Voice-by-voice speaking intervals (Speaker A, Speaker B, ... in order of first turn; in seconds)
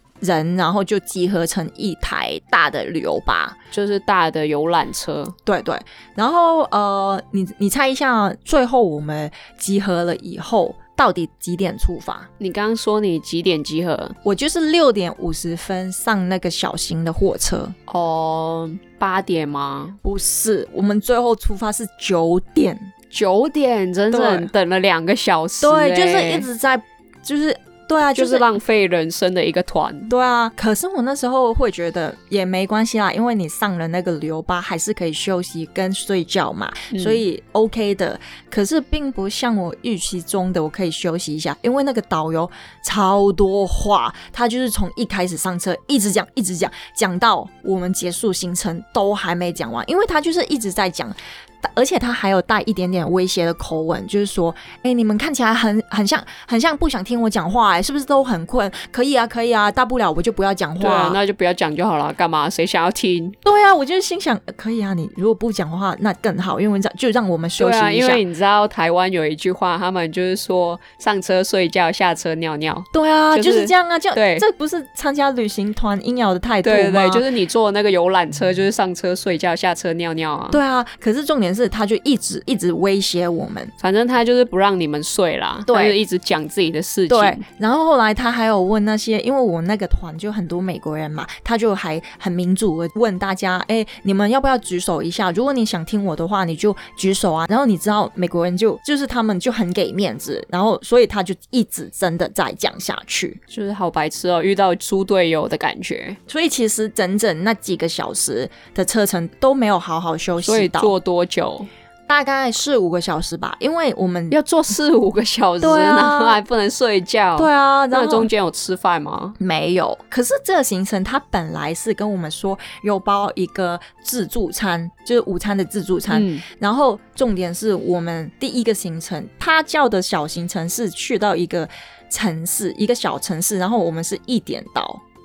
Speaker A: 0.2-3.6, 5.5-12.3, 14.2-17.7, 20.0-22.9, 24.1-24.5, 25.6-28.4, 30.1-61.2, 63.4-68.2, 72.9-77.2, 80.5-83.7, 85.7-86.0, 87.1-103.4, 106.3-110.9, 112.1-114.3, 115.6-116.4, 117.4-118.3, 119.4-135.0
Speaker B: 3.7-5.3, 12.4-14.2, 17.9-20.0, 23.1-26.5, 28.1-30.1, 36.9-37.2, 60.8-63.4, 67.6-74.4, 76.6-80.6, 83.8-87.4, 103.5-106.2, 110.4-111.7, 114.3-119.4, 126.1-126.4